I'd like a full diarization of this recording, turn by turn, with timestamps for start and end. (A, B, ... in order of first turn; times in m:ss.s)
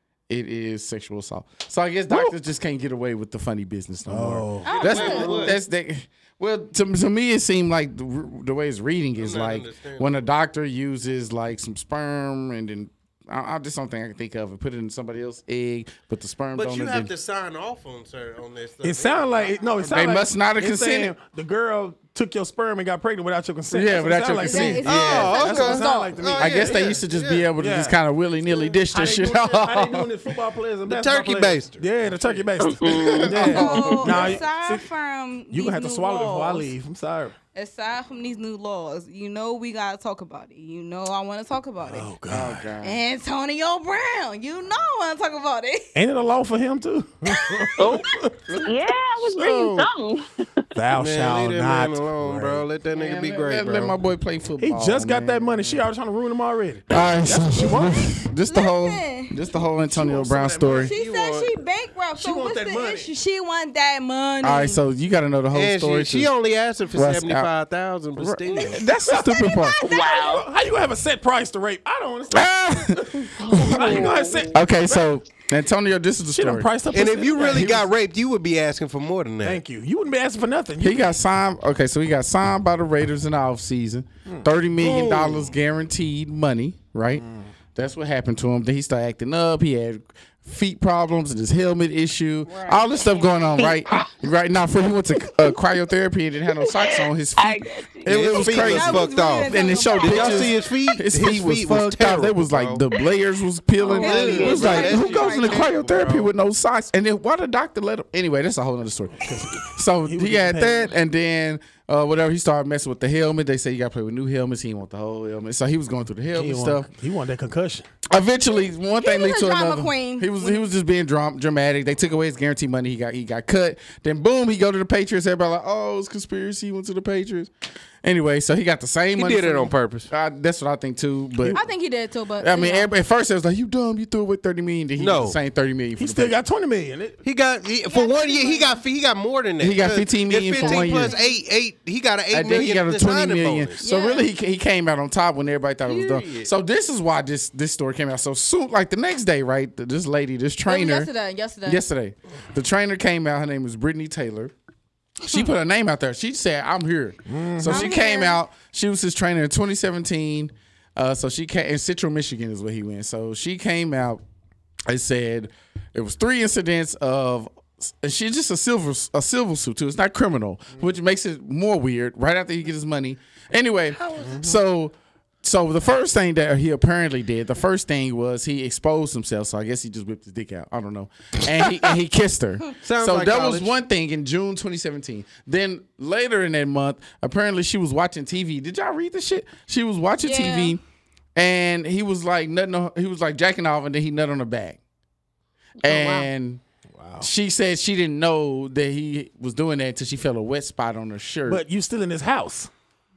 0:00.3-0:17.1 A
0:04.1-0:05.1 B
0:04.6-0:05.6 C
0:04.7-0:05.6 D
0:09.2-0:10.2 D
0:16.5-0:19.8 D
0:18.8-0:26.9 B
0:19.8-0:21.1 A
0:23.7-0:25.2 A
0:24.4-0:26.2 C
0:24.8-0:27.5 D
0:26.4-0:30.1 A
0:27.6-0:28.0 B
0:28.9-0:34.8 B
0:30.8-0:32.2 D
0:32.6-0:33.6 E
0:33.1-0:34.3 A
0:33.4-0:36.7 C
0:35.5-0:37.3 B
0:37.5-0:42.1 C
0:41.8-0:42.7 B
0:42.3-0:43.0 A
0:42.8-0:45.9 C
0:45.9-0:48.4 B
0:47.2-0:48.0 C
0:47.8-0:50.6 E
0:49.4-0:49.8 B
0:50.7-0:52.6 B
0:50.9-0:54.0 D
0:52.9-0:55.8 A
0:54.6-0:58.1 B
0:56.9-1:00.9 A
0:57.6-0:57.9 C
0:58.4-0:59.4 C
1:00.0-1:01.5 D
1:00.0-1:00.7 B
1:00.7-1:04.8 C
1:02.2-1:03.1 B
1:04.4-1:06.3 A
1:05.5-1:08.9 D
1:06.9-1:07.5 A
1:08.2-1:09.8 A
1:08.6-1:10.3 C
1:09.8-1:10.5 E
1:10.0-1:15.0 B
1:12.3-1:16.7 A
1:13.4-1:14.5 E
1:16.3-1:17.8 B
1:16.9-1:19.6 D
1:17.4-1:17.8 A
1:19.4-1:21.1 B
1:20.8-1:56.9 A
1:24.8-1:25.5 D
1:27.2-1:27.5 B
1:32.5-1:33.3 C
1:33.6-1:34.1 E
1:36.6-1:38.4 E
1:38.0-1:42.8 D
1:38.3-1:40.6 C
1:43.8-1:45.6 C
1:43.9-1:44.8 E
1:43.9-1:46.3 D
1:49.2-1:50.9 B
1:56.3-1:57.8 B
1:58.1-2:07.5 A
1:59.0-2:00.6 C
2:08.0-2:11.6 A
2:09.2-2:10.1 D
2:11.5-2:12.9 C
2:12.4-2:16.4 A
2:15.0-2:15.4 D
2:16.0-2:17.2 B
2:17.2-2:23.8 D
2:17.8-2:18.8 C
2:19.6-2:21.1 A
2:20.5-2:21.4 C
2:22.3-2:31.1 A
2:23.8-2:24.3 C
2:25.8-2:26.5 D
2:30.6-2:31.8 C
2:31.6-2:34.5 A
2:35.2-2:44.2 A
2:37.3-2:37.9 B
2:37.7-2:38.4 C
2:44.9-3:10.8 A
2:54.0-2:54.4 D
2:54.2-2:54.6 B
3:02.8-3:03.7 D
3:10.2-3:10.8 C
3:11.4-3:14.8 A
3:15.8-3:16.3 E
3:15.8-3:16.6 A
3:16.9-3:17.3 B
3:17.2-3:21.6 A
3:21.5-3:22.7 B